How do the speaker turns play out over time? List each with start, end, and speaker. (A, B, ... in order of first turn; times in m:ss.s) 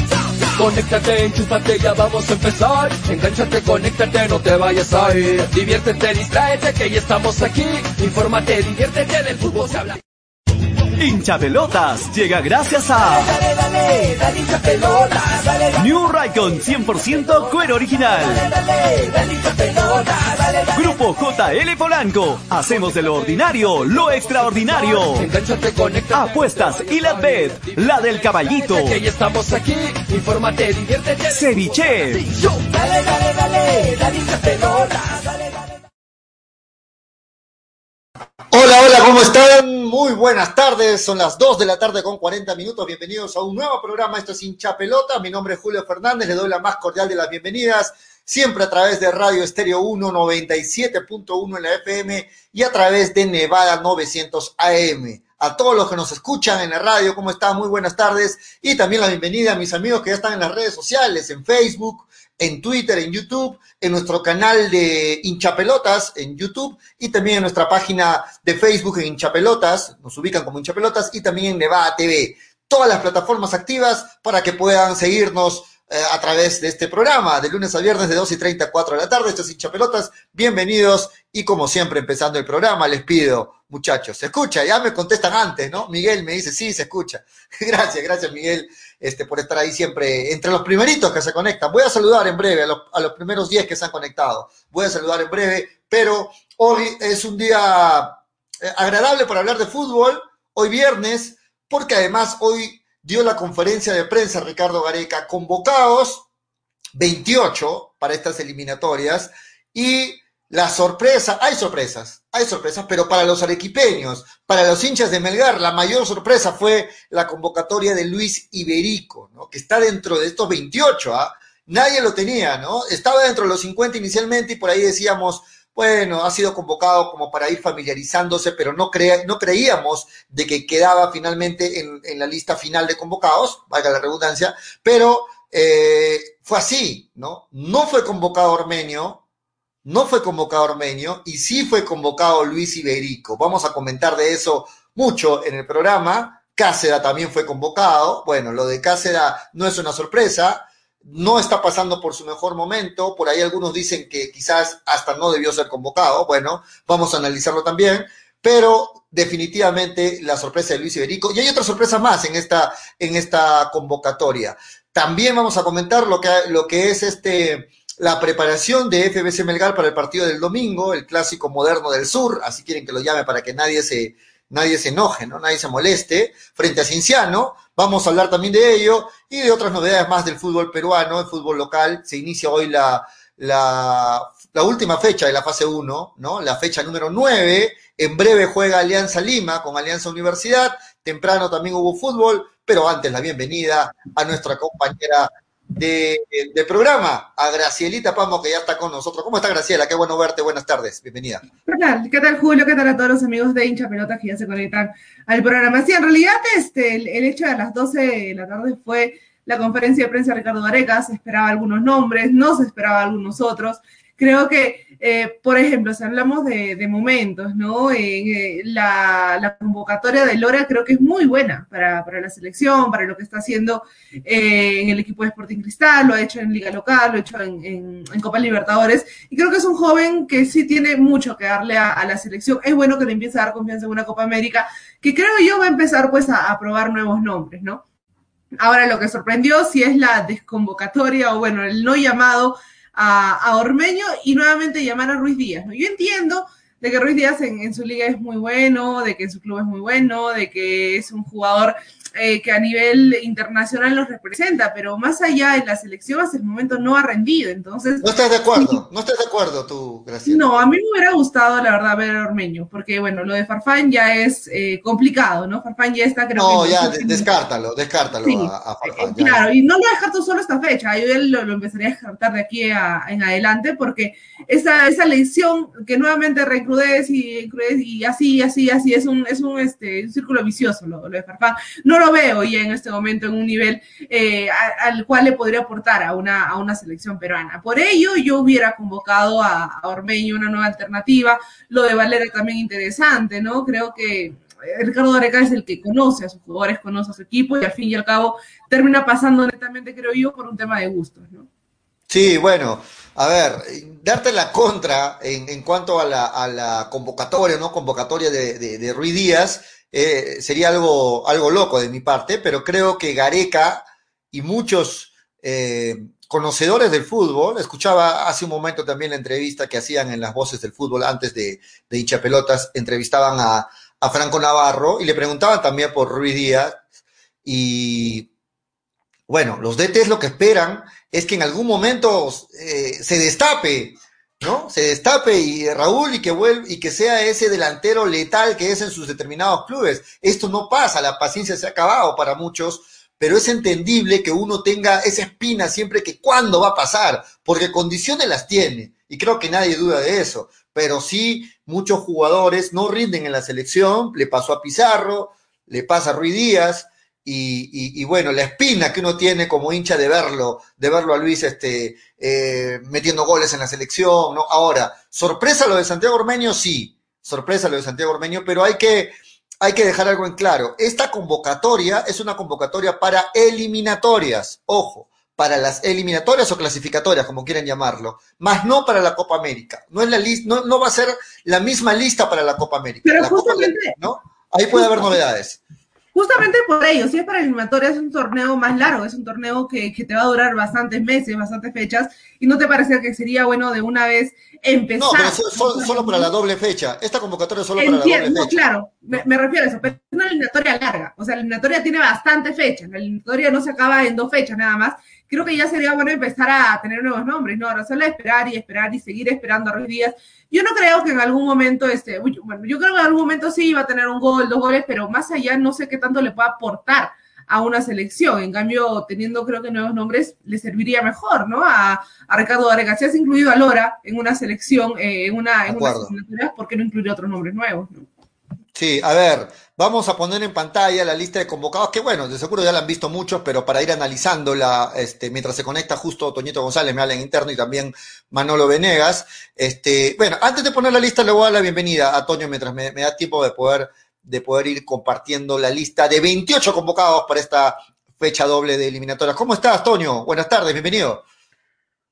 0:00.6-0:10.0 A
0:11.0-0:13.3 B
0:13.2-0:15.7 A
0:15.8-0:18.4 B
0:18.4-0:20.7 A
0:20.7-0:25.3 B
0:24.9-0:27.8 A
0:26.1-0:29.0 B
0:28.7-0:35.6 A
0:31.3-0:32.3 B
0:38.5-1:46.2 C
1:46.9-2:19.2 C
2:19.8-3:21.4 C
3:21.7-3:57.8 D
3:58.6-4:18.8 D
4:18.0-4:20.6 C
4:20.2-4:27.3 D
4:26.3-4:29.4 C
4:28.2-5:01.5 D
5:02.1-5:26.8 C
5:27.4-5:28.3 C
5:29.3-6:25.6 C
6:23.0-6:23.9 D
6:24.7-6:25.1 D
6:26.1-6:36.3 D
6:35.0-6:38.6 C
6:37.8-7:08.1 D
7:05.7-7:06.1 C
7:08.7-7:31.2 C